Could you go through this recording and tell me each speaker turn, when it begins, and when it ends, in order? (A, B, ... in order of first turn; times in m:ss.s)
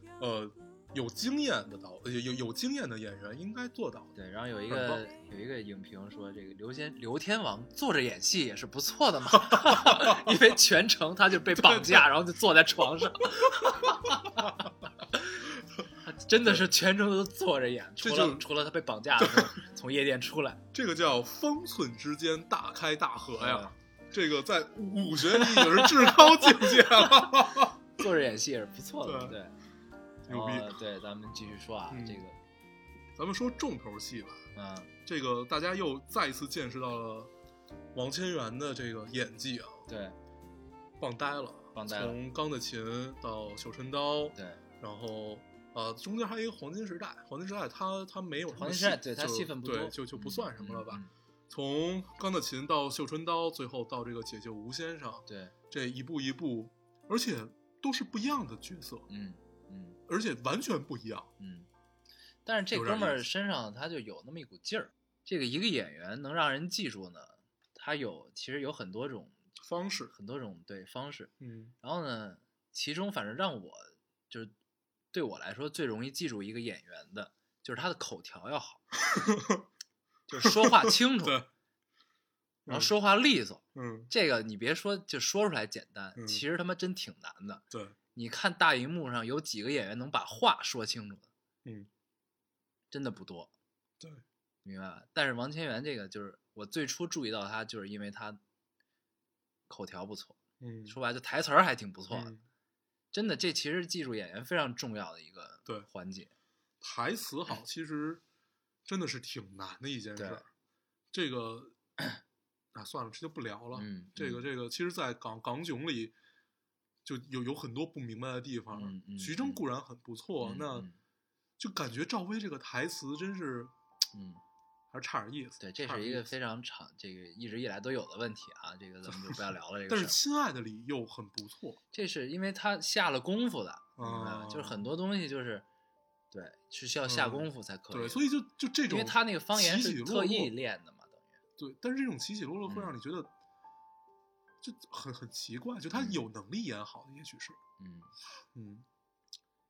0:00.2-0:04.1 A
0:04.1-0:14.5 B
0:04.7-0:05.0 A
0:09.5-0:10.3 A
0:11.4-0:12.1 A
0:16.0-0:20.6 B
0:18.0-0:18.4 A
0:19.2-0:19.6 A
0:20.7-0:27.8 A
0:23.4-0:23.8 B
0:25.4-0:27.3 B
0:28.0-0:29.6 B
0:29.0-0:29.4 A
0:30.3-0:30.8 A
0:30.3-0:32.4 B
0:31.9-0:32.2 A
0:33.2-0:34.4 A
0:34.6-0:34.9 B
0:35.1-0:37.3 A
0:37.9-0:39.8 A
0:39.9-0:40.2 B
0:41.0-0:59.1 A
0:41.7-0:42.2 B
0:44.4-0:44.6 B
0:48.5-0:51.1 B
0:55.3-0:55.5 B
0:59.1-1:00.0 B
1:00.1-1:01.3 A
1:01.4-1:01.7 B
1:02.4-1:09.4 B
1:02.7-1:03.3 A
1:09.6-1:10.1 A
1:10.1-1:14.5 B
1:11.4-1:11.7 A
1:15.1-1:18.8 B
1:19.1-1:19.6 A
1:20.3-1:21.4 B
1:20.4-1:21.5 A
1:22.7-1:22.9 A
1:22.7-1:27.6 B
1:23.8-1:24.1 A
1:26.2-1:26.4 A
1:28.1-1:31.3 B
1:32.9-1:33.5 B
1:34.6-1:38.4 B
1:39.7-1:42.3 B
1:40.6-1:41.0 A
1:42.1-1:42.4 A
1:43.1-1:46.3 B
1:46.8-1:48.2 A
1:48.9-1:50.5 A
1:50.2-1:50.4 B
1:51.1-1:51.8 A
1:52.7-1:56.1 A
1:53.7-1:54.4 B
1:57.0-2:00.9 A
1:58.7-1:59.6 B
2:00.4-2:01.0 B
2:01.6-2:03.7 A
2:04.1-2:04.4 B
2:04.9-2:06.3 A
2:05.6-2:10.2 B
2:09.1-2:11.8 A
2:11.9-2:15.7 B
2:14.0-2:14.8 A
2:16.3-2:18.2 B
2:17.1-2:20.5 A
2:18.9-2:21.4 B
2:21.6-2:23.3 A
2:22.7-2:22.9 B
2:24.6-2:27.6 A
2:25.9-2:26.2 B
2:27.8-2:28.1 B
2:28.5-2:28.9 A